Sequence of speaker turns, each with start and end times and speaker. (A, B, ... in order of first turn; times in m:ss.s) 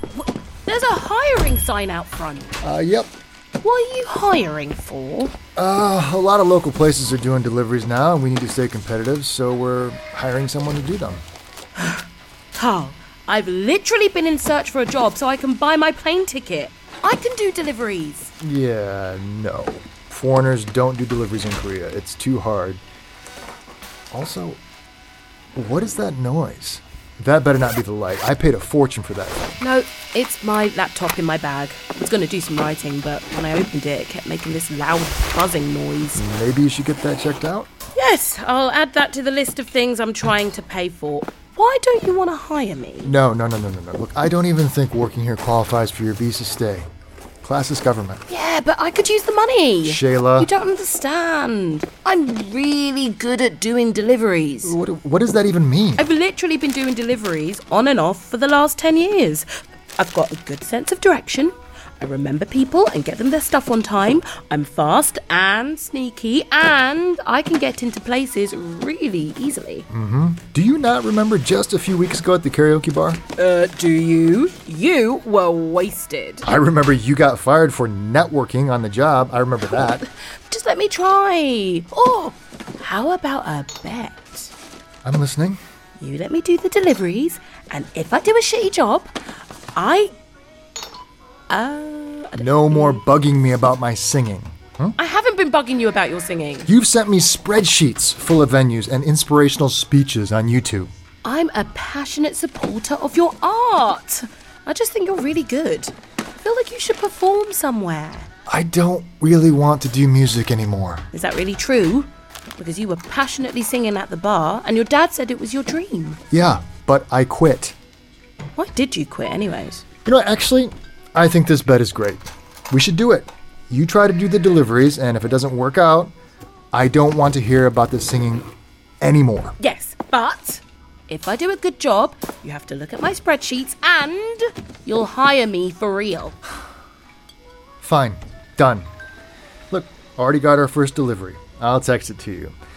0:00.6-0:02.5 A
0:02.6-0:03.1 B
0:03.6-0:05.3 A
0:05.6-0:11.2 B
0:11.8-0:18.3 A
0:18.4-0:22.8 B
0:24.1-0:24.6 B
0:25.5-0:29.5 B
0:29.6-0:36.2 A
0:36.1-0:37.7 B
0:37.9-0:43.1 A
0:43.0-0:46.9 B
0:47.4-0:48.2 B
0:48.3-0:54.8 A
0:49.8-0:50.5 B
0:54.6-0:56.0 B
0:56.0-1:09.9 A
1:09.9-1:13.2 B
1:13.4-1:16.5 A
1:16.4-1:20.0 B
1:19.8-1:24.5 A
1:25.0-1:25.6 B
1:26.0-1:29.1 A
1:29.7-1:30.1 A
1:31.5-1:33.0 A
1:32.4-1:35.0 B
1:35.0-1:36.7 A
1:36.7-1:40.9 B
1:41.2-1:48.3 A
1:48.5-1:51.0 B
1:51.1-1:56.2 A
1:56.3-1:57.8 B
1:58.6-1:59.8 A
2:00.0-2:06.1 B
2:06.7-2:08.5 B
2:09.0-2:09.6 B
2:09.6-2:16.4 A
2:17.8-2:18.9 B
2:19.7-2:22.6 B